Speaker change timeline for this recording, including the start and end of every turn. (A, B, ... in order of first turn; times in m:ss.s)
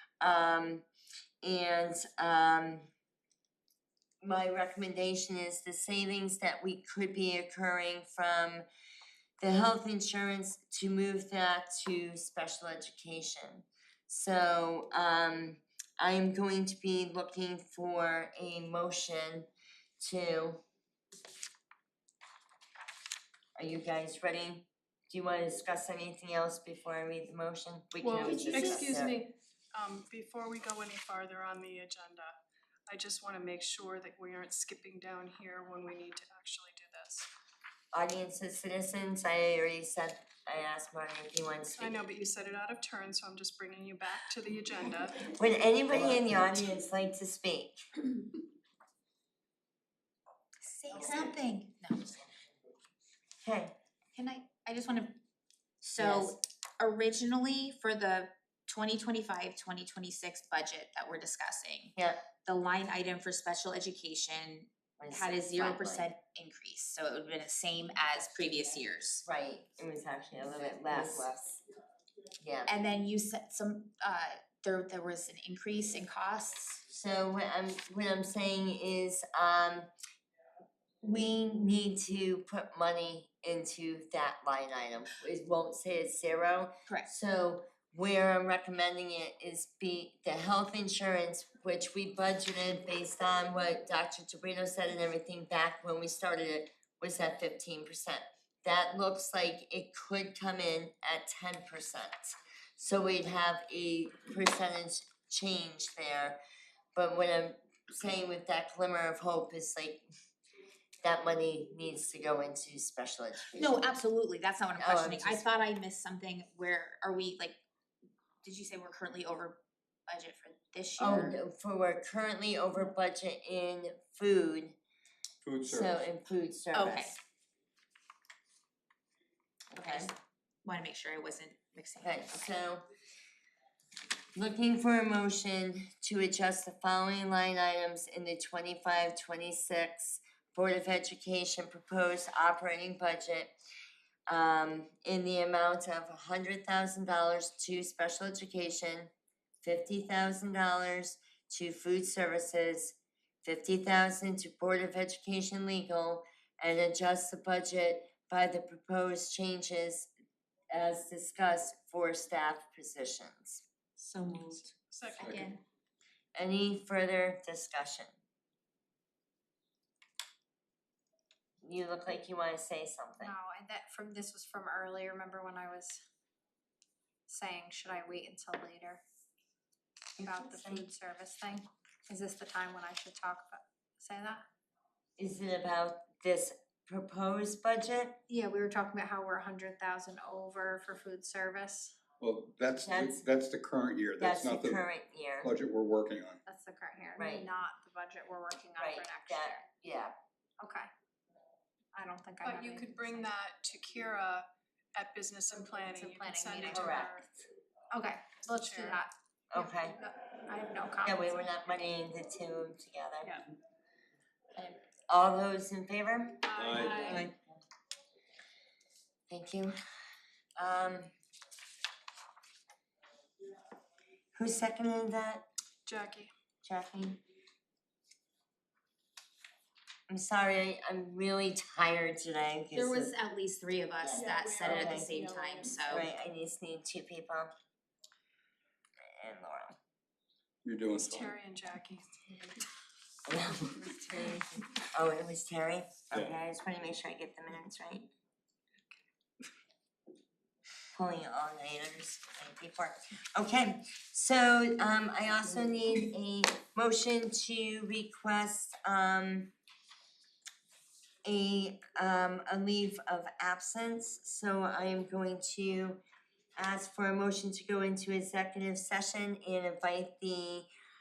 0:00.2-0:00.8 A
0:01.4-0:02.9 A
0:04.2-0:08.6 A
0:09.4-0:19.5 A
0:20.0-0:20.6 A
0:23.6-0:29.2 A
0:28.0-0:32.4 B
0:28.5-0:28.8 C
0:32.9-0:37.3 B
0:37.9-0:42.0 A
0:41.7-0:45.3 B
0:45.3-0:47.8 A
0:45.9-0:46.3 D
0:50.6-0:52.2 C
0:53.4-0:53.8 A
0:54.2-0:55.2 C
0:55.8-1:09.2 C
0:56.0-0:56.4 A
1:05.0-1:06.1 A
1:09.2-1:11.6 A
1:12.4-1:12.7 A
1:12.7-1:16.8 C
1:16.9-1:19.9 A
1:21.0-1:46.4 A
1:47.0-1:50.0 A
1:51.0-1:54.0 A
1:53.5-1:57.6 C
1:54.8-1:55.4 A
1:58.4-2:01.4 C
2:01.0-2:04.8 A
2:05.4-2:06.0 D
2:05.6-2:07.2 A
2:06.7-2:07.1 C
2:09.7-2:10.1 A
2:09.8-2:12.5 C
2:12.0-2:12.9 A
2:14.4-2:23.5 A
2:24.3-2:29.1 A
2:29.6-2:40.1 A
2:40.7-2:43.6 A
2:44.0-2:44.6 C
2:44.8-2:45.5 B
2:45.2-2:45.6 C
2:45.2-2:45.5 D
2:46.4-2:48.1 A
2:51.6-2:53.3 A
2:53.2-2:56.0 E
2:57.3-2:59.0 E
3:00.2-3:00.9 A
3:00.2-3:04.4 E
3:05.2-3:08.2 A
3:08.3-3:12.0 E
3:12.2-3:14.9 D
3:12.8-3:13.3 A
3:14.2-3:15.5 A
3:15.4-3:16.4 D
3:16.4-3:19.7 E
3:17.2-3:17.5 A
3:18.8-3:20.1 A
3:20.6-3:20.9 E
3:21.9-3:23.3 E
3:22.4-3:27.2 B
3:25.6-3:27.1 E
3:26.6-3:27.5 A
3:27.9-3:31.5 E
3:28.5-3:29.0 B
3:29.5-3:30.0 A
3:31.0-3:33.4 A
3:35.1-3:37.4 A
3:36.4-3:37.3 B
3:36.6-3:37.2 D
3:39.3-3:39.7 A
3:40.6-3:41.1 A
3:44.4-3:45.4 A
3:45.9-3:46.3 B
3:46.6-3:47.2 A
3:50.1-3:53.1 A
3:52.7-3:56.1 C
3:54.1-3:55.8 B
3:54.6-3:55.1 A
3:55.9-3:57.5 A
3:59.2-3:59.8 A
4:00.6-4:01.3 D
4:01.0-4:02.7 B
4:03.3-4:04.4 A
4:03.9-4:04.2 B
4:04.9-4:08.1 A
4:10.9-4:19.5 A
4:21.2-4:26.0 A
4:26.6-4:30.7 A